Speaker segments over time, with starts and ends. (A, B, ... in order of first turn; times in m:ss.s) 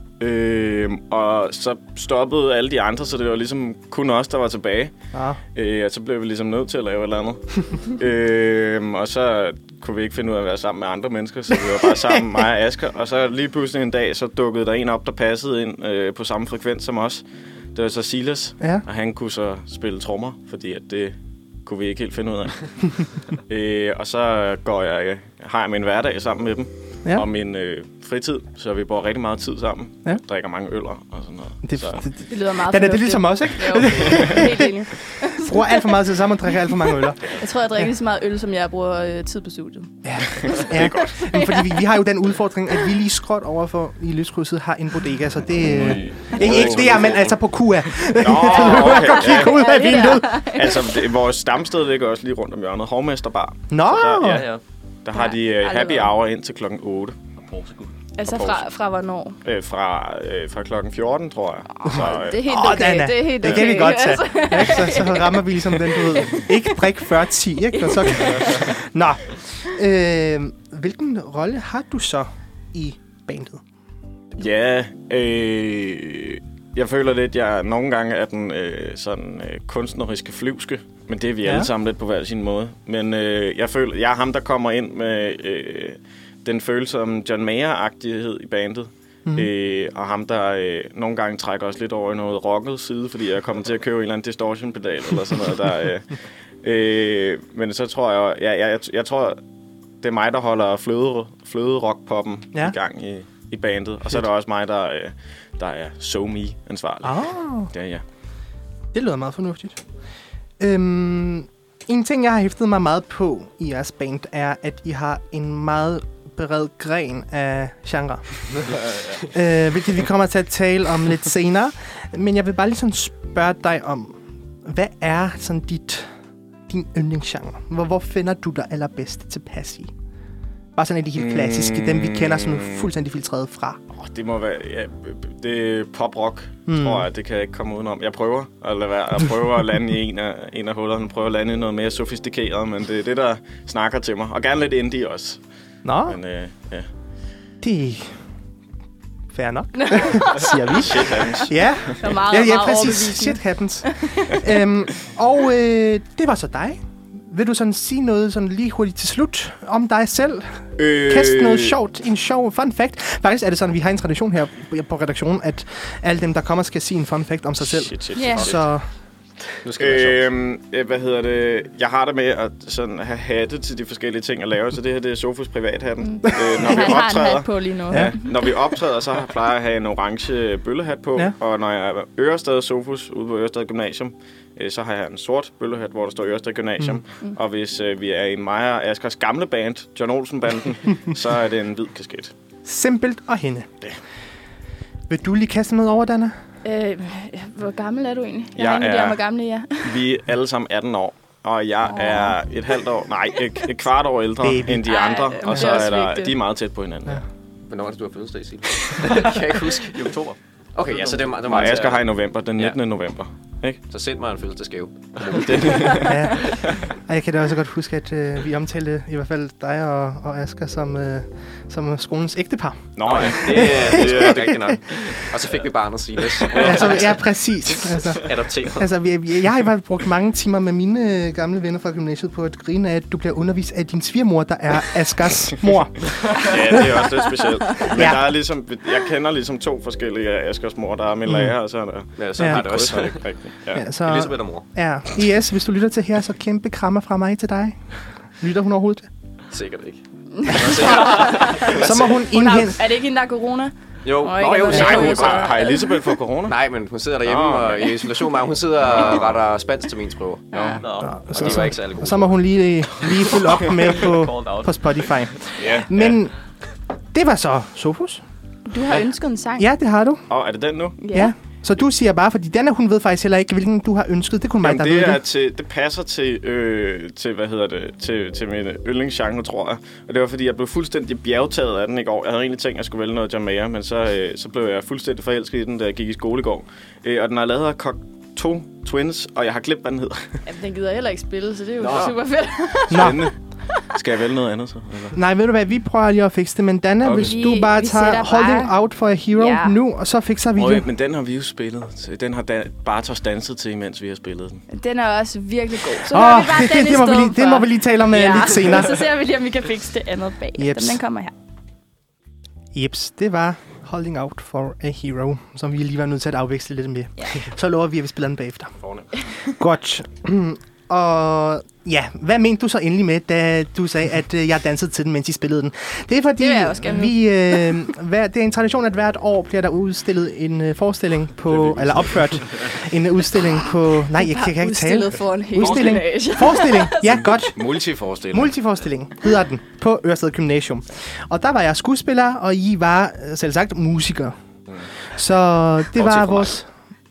0:00.2-0:04.9 A
0:05.1-0:05.4 B
0:05.6-0:32.0 A
0:31.6-0:37.9 B
0:32.3-0:36.0 C
0:36.9-0:42.0 C
0:40.0-0:50.6 B
0:40.4-0:41.2 A
0:45.6-0:47.2 A
0:46.7-0:47.2 D
0:48.0-0:49.6 A
0:48.4-0:51.0 C
0:50.2-0:54.5 A
0:53.7-0:54.5 B
0:54.2-0:54.6 E
0:55.0-0:57.2 A
0:55.1-0:56.1 C
0:57.5-0:57.9 E
0:58.2-0:59.4 C
0:58.2-0:58.6 A
0:59.4-1:02.5 A
1:01.9-1:06.8 C
1:01.9-1:13.6 B
1:07.7-1:08.7 C
1:14.4-1:39.4 A
1:21.4-1:21.7 B
1:40.0-1:48.0 A
1:47.0-1:47.7 B
1:48.9-1:49.8 B
1:50.6-2:06.1 B
2:06.7-2:09.9 B
2:10.8-2:13.8 B
2:11.2-2:12.9 A
2:13.9-2:25.4 A
2:16.7-2:17.1 B
2:25.8-2:26.2 B
2:26.1-2:26.9 A
2:27.6-2:28.2 B
2:29.3-2:48.8 B
2:29.8-2:31.2 C
2:30.8-2:32.0 A
2:32.0-2:34.4 C
2:40.8-2:41.8 A
2:47.6-2:48.6 A
2:48.1-2:48.5 C
2:49.6-2:50.2 D
2:49.8-3:12.3 A
2:56.0-2:58.5 C
2:56.6-2:56.9 B
2:57.9-2:58.2 B
3:12.6-3:13.7 B
3:15.1-3:16.4 B
3:16.6-3:20.0 C
3:18.6-3:19.2 A
3:19.8-3:27.2 A
3:21.9-3:22.4 C
3:24.4-3:24.9 B
3:24.9-3:26.4 C
3:25.5-3:25.8 B
3:27.7-3:30.1 D
3:29.0-3:30.4 E
3:30.8-3:32.8 D
3:31.4-3:33.8 A
3:33.9-3:36.0 D
3:35.3-3:36.8 A
3:36.1-3:44.8 B
3:43.0-3:44.5 A
3:43.0-3:47.1 D
3:46.5-3:46.8 A
3:46.6-3:56.9 B
3:48.1-3:48.9 D
3:56.3-4:03.9 A
3:57.9-3:58.3 B
4:01.3-4:01.6 B
4:02.2-4:03.2 D
4:02.4-4:02.7 B
4:03.7-4:07.8 B
4:04.0-4:04.6 D
4:08.4-4:09.1 B
4:09.5-4:12.3 D
4:10.4-4:16.0 C
4:10.7-4:12.8 B
4:14.0-4:15.5 D
4:14.4-4:16.6 A
4:16.5-4:20.5 D
4:17.2-4:18.1 A
4:18.8-4:19.3 A
4:20.5-4:20.8 C
4:20.5-4:20.8 A
4:20.8-4:21.2 E
4:21.0-4:26.3 B
4:21.3-4:22.4 D
4:23.6-4:24.7 E
4:25.6-4:26.2 A
4:27.1-4:28.2 B
4:28.7-4:29.7 C
4:29.6-4:30.2 B
4:30.3-4:31.0 A
4:31.0-4:31.3 C
4:31.1-4:35.2 B
4:34.6-4:50.4 A
4:50.4-4:53.2 C
4:51.8-4:52.1 A
4:52.9-4:53.3 A
4:52.9-4:53.3 B
4:53.9-4:55.2 A
4:55.1-5:00.9 B
4:57.0-4:57.3 A
4:57.2-4:58.8 C
4:59.3-4:59.8 C
5:00.6-5:04.6 A
5:04.7-5:11.3 C
5:06.0-5:09.1 B
5:10.6-5:11.0 B
5:12.7-5:18.7 B
5:18.8-5:19.1 A
5:19.6-5:37.6 B
5:26.4-5:27.8 C
5:31.5-5:32.6 A
5:34.1-5:37.4 C
5:37.7-5:38.0 A
5:38.3-5:44.4 B
5:45.1-5:46.7 B
5:46.0-5:46.3 A